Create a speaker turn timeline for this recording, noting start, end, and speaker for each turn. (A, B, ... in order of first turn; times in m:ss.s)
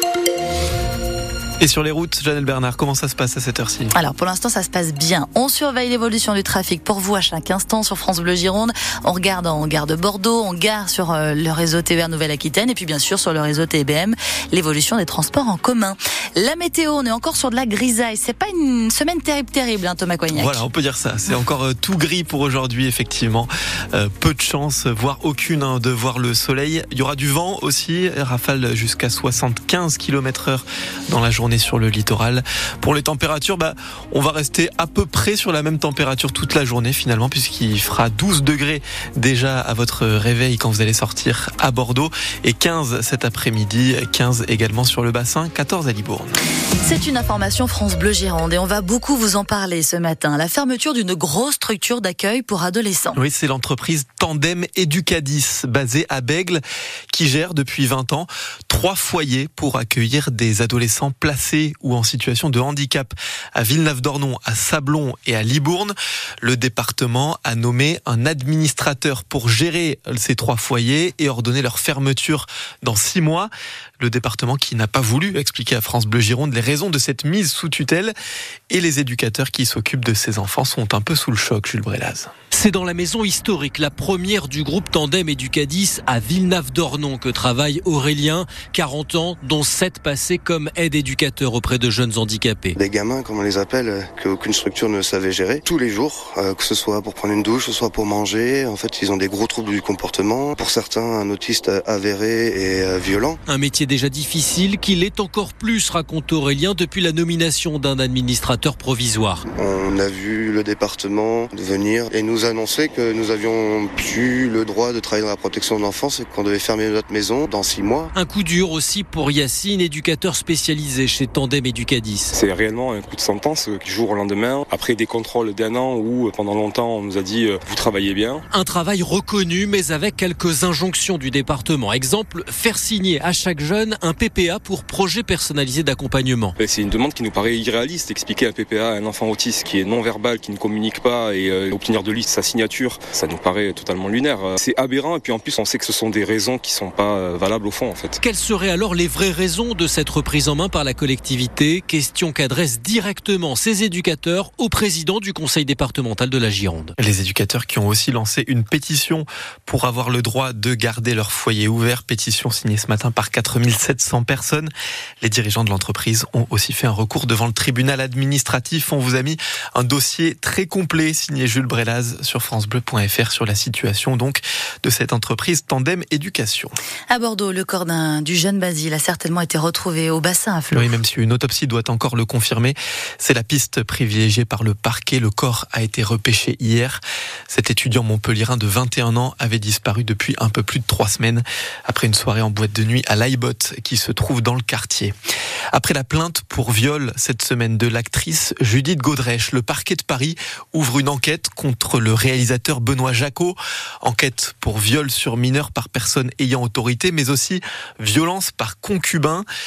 0:01.6-0:03.9 A
0:04.0-0:20.6 B
0:20.3-0:46.4 A
0:46.8-0:53.2 B
0:53.2-1:18.1 A
1:18.7-1:22.3 A
1:22.5-1:32.8 C
1:32.8-1:43.4 D
1:43.5-1:49.4 C
1:49.5-1:58.1 D
1:58.1-2:02.4 C
2:02.4-2:08.4 E
2:08.5-2:16.6 C
2:16.6-2:28.1 E
2:28.2-2:36.9 C
2:37.0-2:44.7 A
2:45.2-2:56.7 A
2:57.1-3:00.9 B
3:00.7-3:15.1 A
3:15.7-3:29.4 A